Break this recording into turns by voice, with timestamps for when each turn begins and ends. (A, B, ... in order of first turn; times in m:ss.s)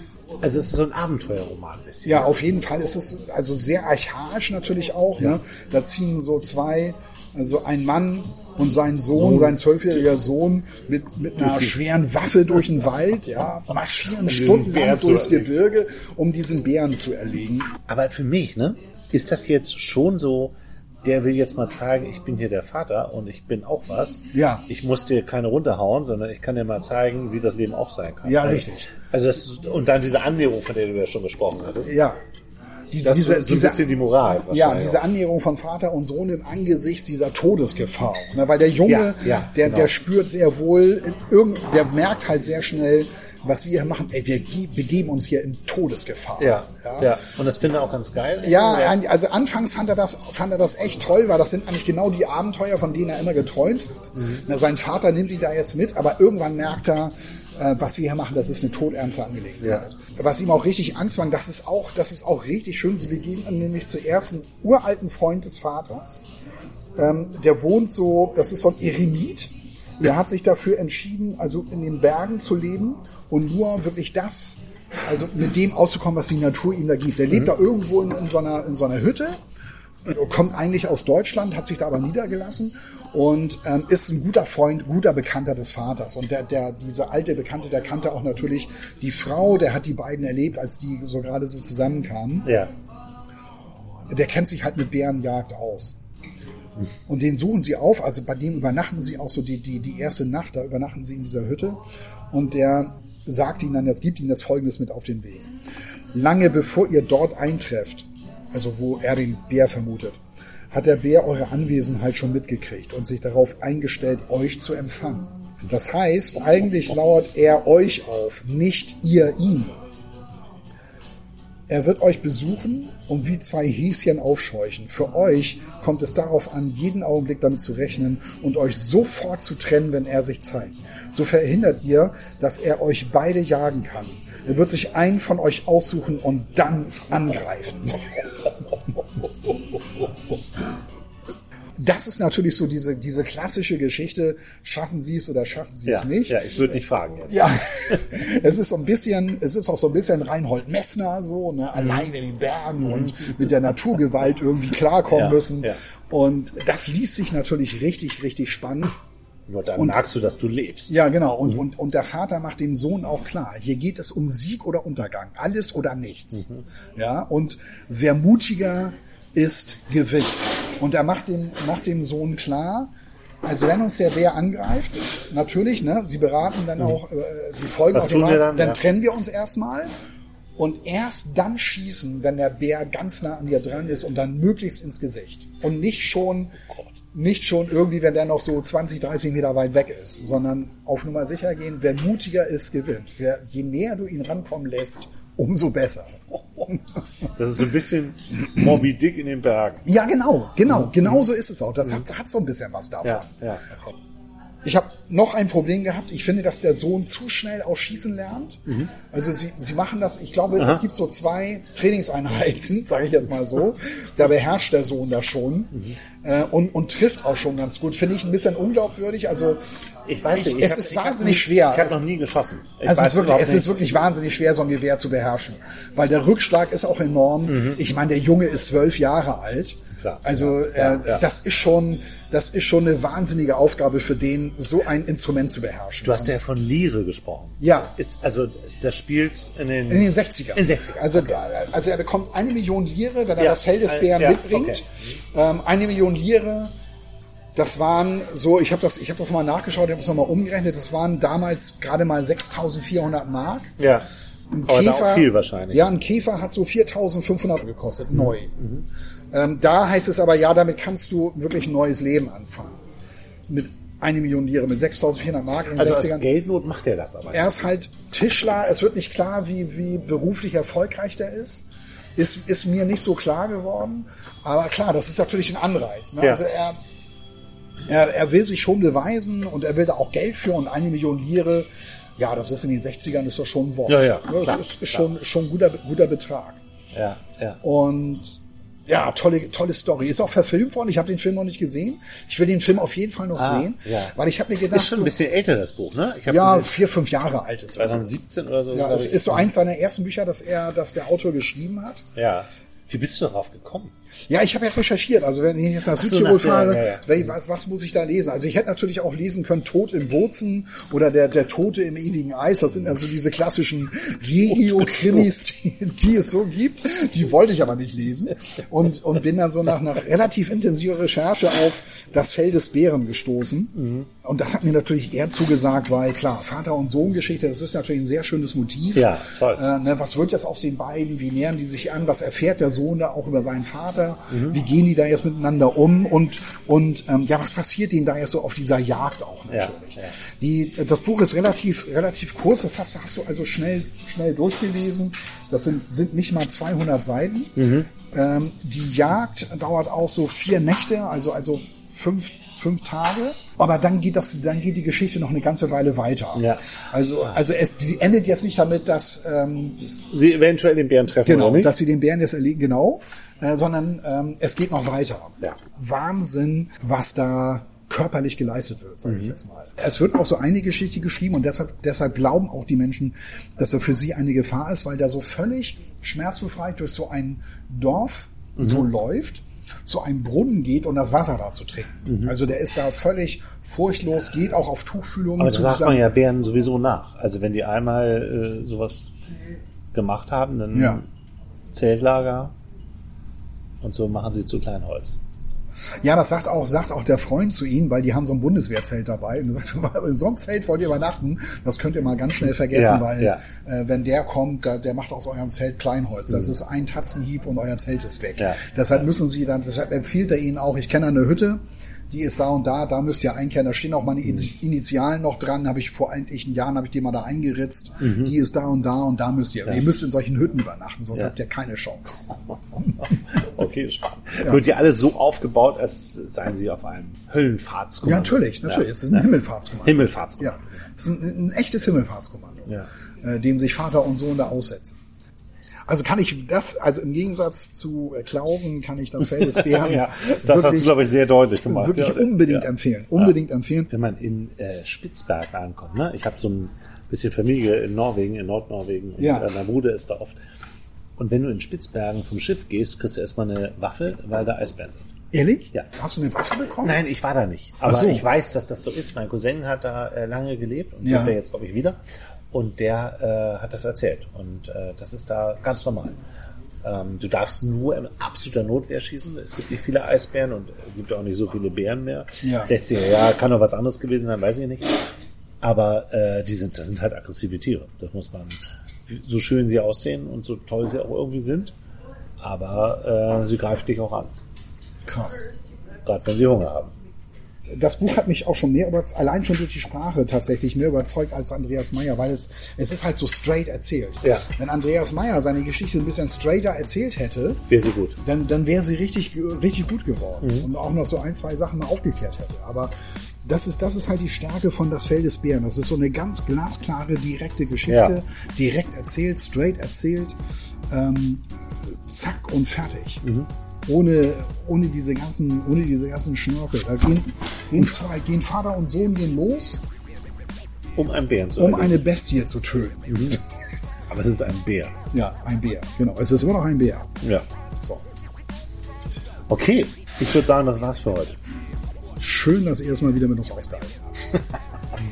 0:00.4-0:02.3 A
0:02.0-0:17.7 B
0:09.2-0:09.6 A
0:14.2-0:15.5 A
0:17.9-0:32.0 A
0:24.3-0:24.6 B
0:28.2-0:28.9 B
0:31.9-0:32.2 B
0:32.9-0:33.9 B
0:33.0-0:35.0 A
0:34.5-0:47.1 B
0:38.9-0:39.9 A
0:46.4-0:48.9 A
0:48.4-1:06.2 B
0:54.2-0:54.4 A
1:07.0-1:19.4 B
1:20.0-1:32.5 B
1:32.4-1:32.7 A
1:34.1-1:36.0 B
1:37.1-1:41.8 B
1:42.3-1:45.5 B
1:46.1-1:59.8 B
2:01.7-2:18.3 B
2:21.8-2:26.4 B
2:25.9-2:28.0 A
2:27.3-2:39.0 B
2:33.0-2:33.3 A
2:35.1-2:35.8 A
2:39.5-2:41.0 A
2:40.9-2:52.9 B
2:53.4-2:59.9 B
2:57.9-2:58.8 A
3:00.6-3:06.6 B
3:07.1-3:16.8 B
3:17.4-3:19.9 A
3:19.8-3:23.9 B
3:20.8-3:21.1 A
3:23.0-3:23.7 A
3:24.6-3:39.6 B
3:40.1-3:43.7 A
3:40.3-3:42.0 B
3:42.8-3:56.4 B
3:47.5-3:47.8 A
3:50.0-3:51.2 A
3:56.0-4:01.4 A
3:57.6-3:57.9 B
3:59.9-4:06.7 B
4:03.4-4:04.8 A
4:07.6-4:13.8 B
4:13.8-4:14.1 A
4:14.5-4:18.5 B
4:14.7-4:15.9 A
4:18.3-4:18.8 A
4:19.3-4:22.8 B
4:23.5-4:26.3 B
4:25.8-4:27.5 A
4:27.3-4:31.6 B
4:32.2-4:36.8 B
4:37.9-4:46.6 B
4:43.9-4:45.0 A
4:46.9-4:47.6 A
4:47.6-4:55.1 B
4:53.4-4:54.2 A
4:54.7-4:56.8 A
4:56.3-4:58.1 B
4:57.8-4:59.5 A
4:58.7-5:02.0 B
5:02.2-5:03.9 A
5:04.3-5:59.8 B
5:06.0-5:07.1 A
5:14.7-5:15.2 A
5:23.8-5:24.1 A
5:29.0-5:29.6 A
5:34.3-5:34.6 A
5:39.5-5:40.1 A
5:47.6-5:47.9 A
5:56.4-5:56.6 A
6:00.1-6:01.7 A
6:01.3-6:26.0 B
6:09.1-6:09.3 A
6:22.1-6:22.3 A
6:25.4-6:29.1 A
6:29.9-6:31.1 A
6:30.7-6:31.0 B
6:31.7-6:32.5 A
6:33.8-6:35.2 A
6:36.0-7:02.4 B
6:42.7-6:43.4 A
6:58.0-6:58.3 A
7:03.4-7:09.2 A
7:08.0-7:12.7 B
7:09.8-7:10.6 A
7:13.2-7:15.0 B
7:15.9-7:21.0 B
7:19.4-7:23.4 A
7:21.7-7:23.9 B
7:23.9-7:30.4 A
7:29.2-7:29.5 B
7:31.2-7:35.1 A
7:35.3-7:37.0 B
7:36.8-7:42.0 A
7:37.8-7:38.2 B
7:41.0-7:41.4 B
7:42.5-7:46.2 A
7:46.8-7:55.1 A
7:52.4-7:52.7 B
7:55.6-8:01.7 A
8:02.4-8:04.3 A
8:05.1-8:05.4 B
8:06.0-8:06.9 A
8:07.7-8:17.6 B
8:17.7-8:18.2 A
8:18.2-8:22.9 B
8:20.4-8:20.7 A
8:23.4-8:30.4 B
8:27.9-8:28.2 A
8:30.9-8:33.2 B
8:33.2-8:33.5 A
8:33.9-8:39.8 B
8:41.0-8:42.0 A
8:41.6-8:43.4 B
8:43.1-8:43.4 A
8:44.1-8:45.0 A
8:45.1-8:47.2 B
8:49.5-8:51.4 A
8:52.2-8:54.4 B